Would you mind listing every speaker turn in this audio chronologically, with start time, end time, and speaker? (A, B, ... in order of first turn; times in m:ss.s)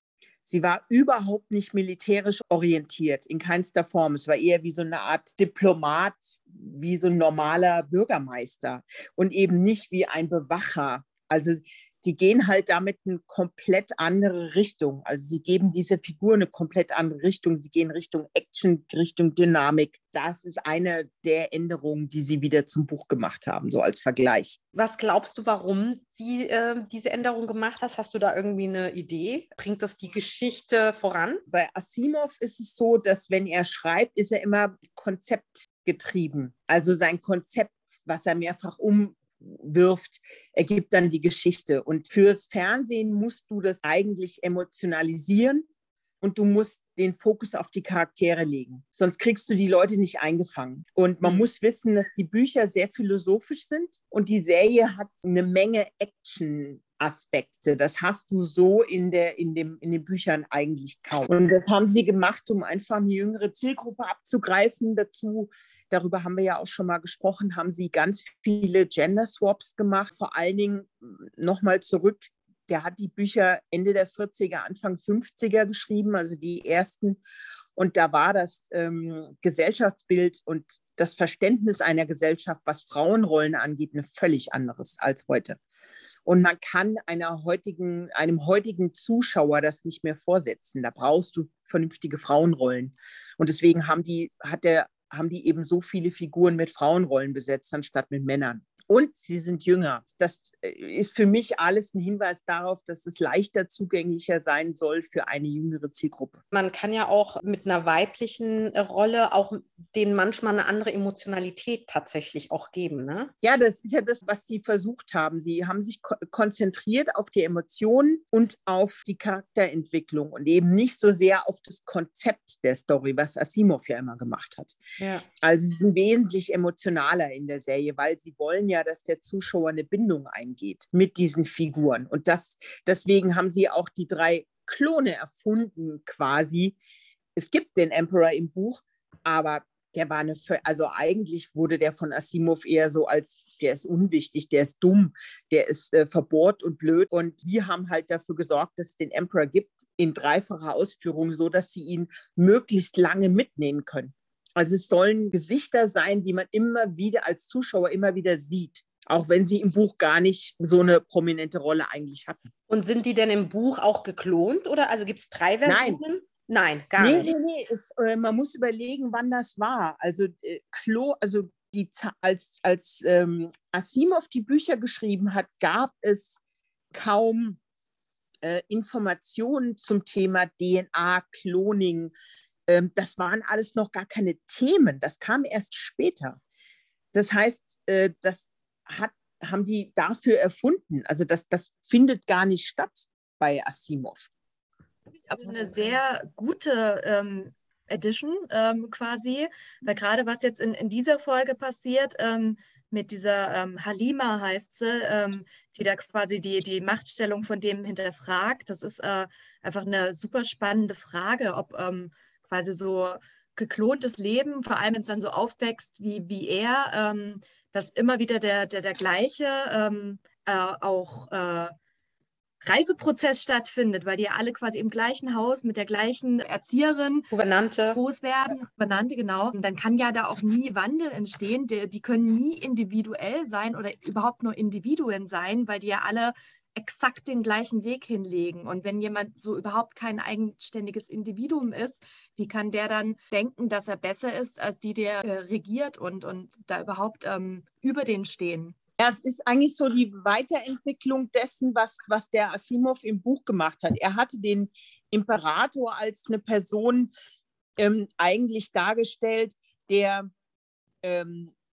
0:00.4-0:24.6 A
0:24.7-0:31.4 B
0:31.5-0:45.7 A
0:46.2-1:17.2 A
1:17.8-1:25.6 A
1:26.3-1:46.4 A
1:46.5-1:53.3 B
1:53.4-2:04.8 A
2:05.0-2:05.3 B
2:05.4-2:16.8 A
2:17.4-2:42.5 A
2:42.7-2:47.3 B
2:45.7-2:46.0 A
2:47.0-2:56.4 A
2:56.9-2:57.6 A
2:58.4-3:02.1 A
3:02.7-3:06.4 A
3:07.1-3:14.3 A
3:15.3-3:41.7 C
3:42.6-3:47.3 C
3:47.3-3:48.0 B
3:47.9-4:08.8 C
4:09.0-4:17.1 A
4:17.8-4:20.3 A
4:21.0-4:21.5 A